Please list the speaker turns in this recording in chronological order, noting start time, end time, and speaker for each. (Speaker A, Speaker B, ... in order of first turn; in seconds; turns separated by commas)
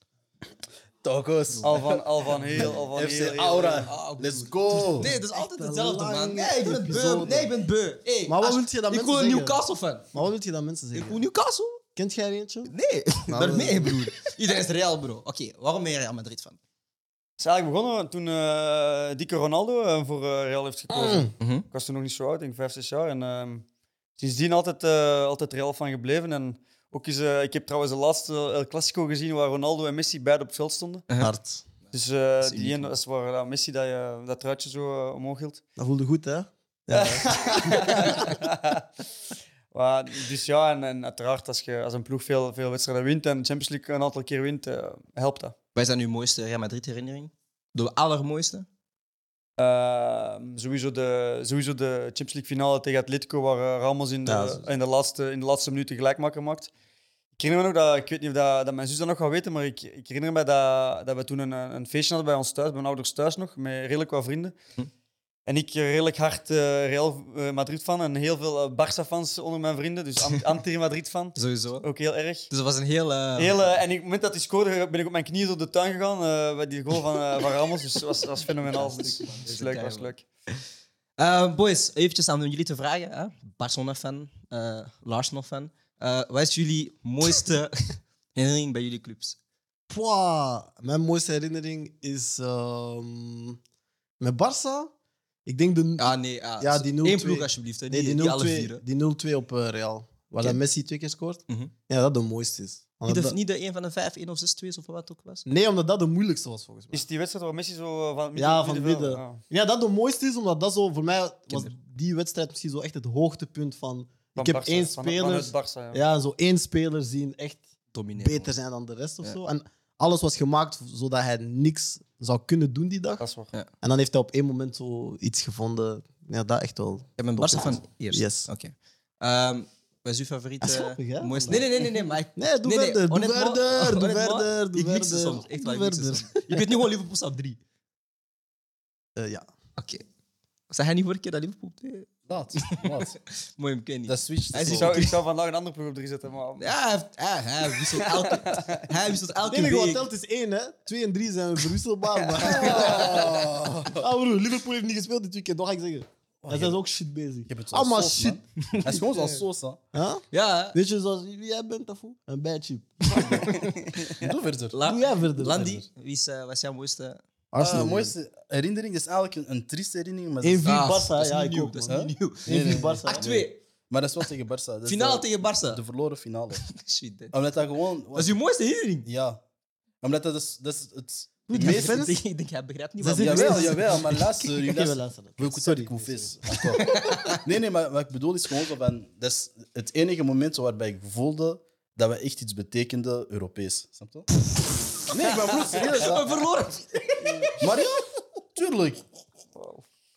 Speaker A: 1.0-5.1, Speaker B: 1.6-3.9, Speaker C: 3.9-10.1, Speaker D: 4.7-7.5, Speaker D: 8.2-9.6, Speaker D: 10.1-11.2, Speaker C: 10.9-11.8, Speaker D: 11.9-12.7, Speaker C: 12.7-16.6, Speaker D: 13.3-14.1, Speaker B: 17.4-23.6, Speaker D: 20.9-21.3, Speaker C: 21.4-21.7, Speaker B: 24.2-31.1, Speaker D: 31.2-31.6, Speaker C: 31.8-33.0, Speaker B: 31.9-35.6, Speaker D: 35.8-38.2, Speaker B: 36.9-38.8, Speaker B: 39.7-45.5, Speaker C: 45.8-48.7, Speaker B: 49.6-56.7, Speaker D: 54.2-54.6, Speaker B: 57.4-64.5, Speaker B: 65.5-72.5, Speaker C: 71.4-71.8, Speaker C: 72.5-73.7, Speaker B: 73.4-80.2, Speaker C: 78.4-80.6, Speaker C: 81.2-89.4, Speaker D: 89.9-93.6, Speaker D: 94.2-94.9, Speaker D: 95.5-103.4, Speaker C: 96.0-98.8, Speaker C: 103.1-105.5, Speaker D: 105.5-107.0, Speaker B: 106.9-109.4, Speaker D: 108.3-117.7, Speaker B: 114.3-116.0, Speaker C: 117.9-118.5, Speaker D: 118.2-123.2, Speaker B: 123.2-123.5, Speaker D: 123.8-128.5, Speaker C: 127.2-137.6, Speaker D: 130.6-136.7, Speaker D: 139.2-139.5, Speaker C: 139.8-140.0, Speaker C: 140.7-142.1, Speaker A: 142.3-143.1, Speaker C: 142.6-145.2, Speaker A: 144.1-145.0, Speaker B: 144.6-146.7, Speaker C: 146.6-150.0, Speaker B: 148.3-148.8, Speaker D: 149.5-153.3, Speaker B: 152.5-152.9, Speaker C: 152.5-153.2, Speaker A: 152.5-154.0, Speaker D: 154.0-163.7, Speaker A: 156.4-156.8, Speaker A: 157.5-159.8, Speaker C: 160.3-160.8, Speaker C: 163.2-164.0, Speaker A: 164.1-164.7, Speaker C: 164.7-167.2, Speaker D: 164.8-165.8, Speaker D: 167.5-168.1, Speaker A: 167.6-170.9, Speaker D: 170.4-173.4, Speaker C: 170.6-173.6, Speaker A: 171.9-176.7, Speaker C: 174.8-175.8, Speaker C: 176.6-177.3, Speaker A: 177.3-178.4, Speaker C: 178.1-179.1, Speaker A: 179.0-179.4, Speaker A: 180.0-182.0, Speaker D: 181.5-182.2, Speaker C: 181.5-184.2, Speaker D: 183.0-187.1, Speaker A: 183.1-194.3, Speaker C: 186.8-187.4, Speaker C: 195.0-197.5, Speaker A: 195.0-196.4, Speaker A: 197.6-199.0, Speaker B: 199.6-199.8